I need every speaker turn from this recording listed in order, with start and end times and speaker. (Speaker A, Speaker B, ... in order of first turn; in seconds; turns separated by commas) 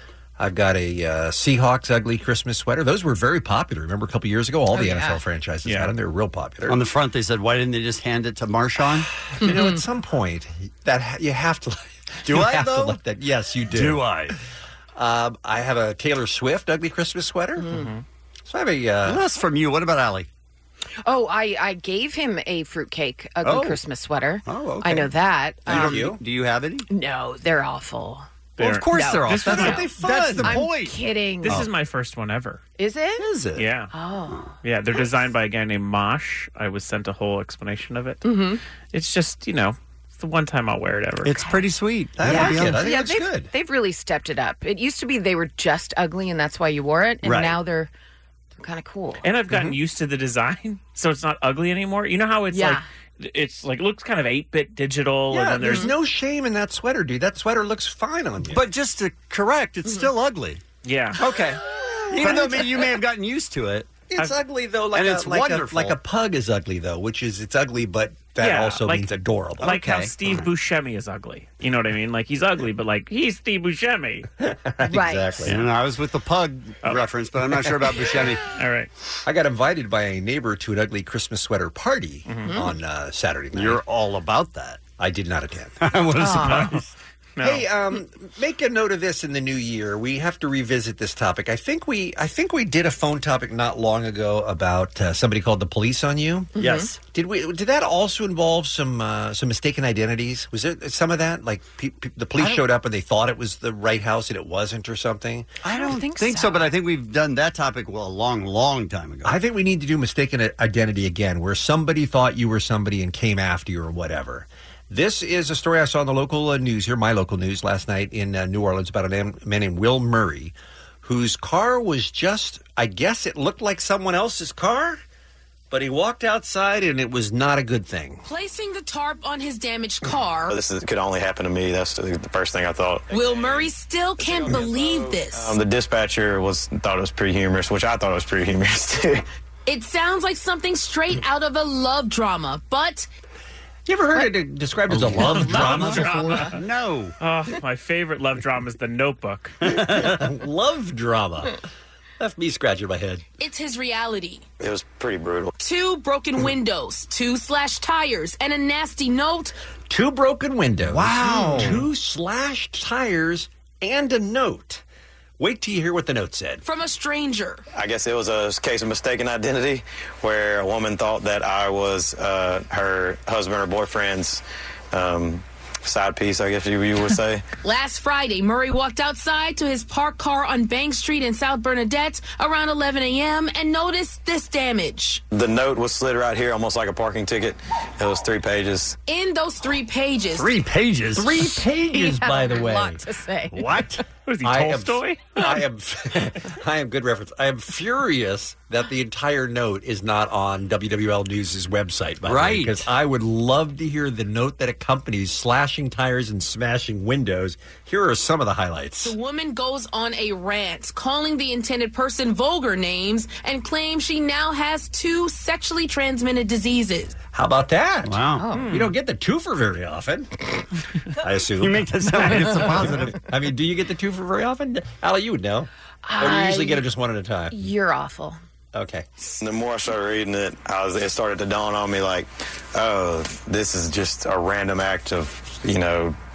Speaker A: 0.4-6.9, Speaker B: 4.7-5.2, Speaker C: 5.7-5.9, Speaker D: 6.7-9.1, Speaker A: 9.3-14.1, Speaker B: 9.4-9.8, Speaker D: 12.2-13.0, Speaker D: 13.7-14.4, Speaker A: 14.9-17.8, Speaker B: 17.6-17.9, Speaker C: 17.8-18.0, Speaker A: 18.5-19.2, Speaker D: 19.1-20.3, Speaker B: 21.0-26.1, Speaker D: 23.4-23.8, Speaker D: 24.5-25.1, Speaker A: 25.7-26.2, Speaker D: 25.7-26.9, Speaker B: 26.9-28.3, Speaker C: 28.6-29.9, Speaker D: 28.6-31.7, Speaker B: 28.9-29.9, Speaker A: 29.4-30.6, Speaker B: 30.4-31.7, Speaker C: 31.4-32.6, Speaker B: 32.8-33.3, Speaker D: 33.2-33.7, Speaker C: 33.6-33.9, Speaker B: 33.9-35.0, Speaker C: 34.6-38.2, Speaker B: 38.2-38.6, Speaker C: 38.9-41.4, Speaker D: 41.2-42.8, Speaker A: 42.2-43.5, Speaker B: 42.2-47.9, Speaker D: 47.2-47.6, Speaker B: 48.6-49.3, Speaker C: 49.2-55.9, Speaker A: 49.5-49.8, Speaker B: 52.5-52.9, Speaker A: 55.3-58.7, Speaker B: 55.6-55.9, Speaker D: 58.5-60.6, Speaker C: 60.8-61.2, Speaker A: 61.2-63.0, Speaker D: 62.1-64.0, Speaker A: 64.1-69.8, Speaker D: 64.9-66.0, Speaker C: 68.4-74.3, Speaker D: 69.6-70.3, Speaker A: 74.4-75.7, Speaker B: 74.9-75.5, Speaker D: 75.4-78.5, Speaker C: 78.5-78.9, Speaker A: 79.2-83.8, Speaker C: 82.3-82.6, Speaker D: 83.5-84.8, Speaker A: 85.0-85.8, Speaker D: 85.8-86.9, Speaker B: 86.2-86.8, Speaker C: 86.4-86.8, Speaker C: 87.4-87.7, Speaker A: 87.4-105.6, Speaker B: 96.6-96.9, Speaker D: 96.6-97.0, Speaker D: 105.6-109.4, Speaker B: 105.7-106.7, Speaker A: 109.2-125.0, Speaker A: 125.7-128.2, Speaker E: 128.2-130.6, Speaker F: 130.5-139.2, Speaker E: 133.1-135.6, Speaker E: 139.7-143.1, Speaker A: 143.9-146.4, Speaker D: 144.9-147.2, Speaker C: 145.5-146.6, Speaker C: 147.2-149.6, Speaker D: 149.6-150.2, Speaker A: 149.8-151.6, Speaker A: 152.2-153.2, Speaker E: 153.4-154.4, Speaker F: 154.6-155.6, Speaker E: 155.6-159.6, Speaker A: 159.9-164.8, Speaker D: 160.9-161.8, Speaker B: 161.2-161.8, Speaker A: 165.4-166.6, Speaker E: 166.6-167.6, Speaker F: 167.7-177.5, Speaker E: 177.6-185.2, Speaker F: 185.3-189.0, Speaker E: 189.1-190.5, Speaker D: 190.3-191.4, Speaker A: 191.2-193.0, Speaker B: 191.3-193.6, Speaker D: 193.5-194.1, Speaker C: 194.2-195.4, Speaker A: 194.4-209.1, Speaker D: 202.3-202.8, Speaker E: 209.0-217.2, Speaker A: 217.3-220.3, Speaker D: 218.1-218.5, Speaker B: 218.4-218.8, Speaker C: 218.6-218.9, Speaker A: 221.1-227.7, Speaker D: 221.6-223.2, Speaker B: 226.1-226.8, Speaker B: 227.5-228.4, Speaker A: 228.7-229.1, Speaker F: 229.4-236.2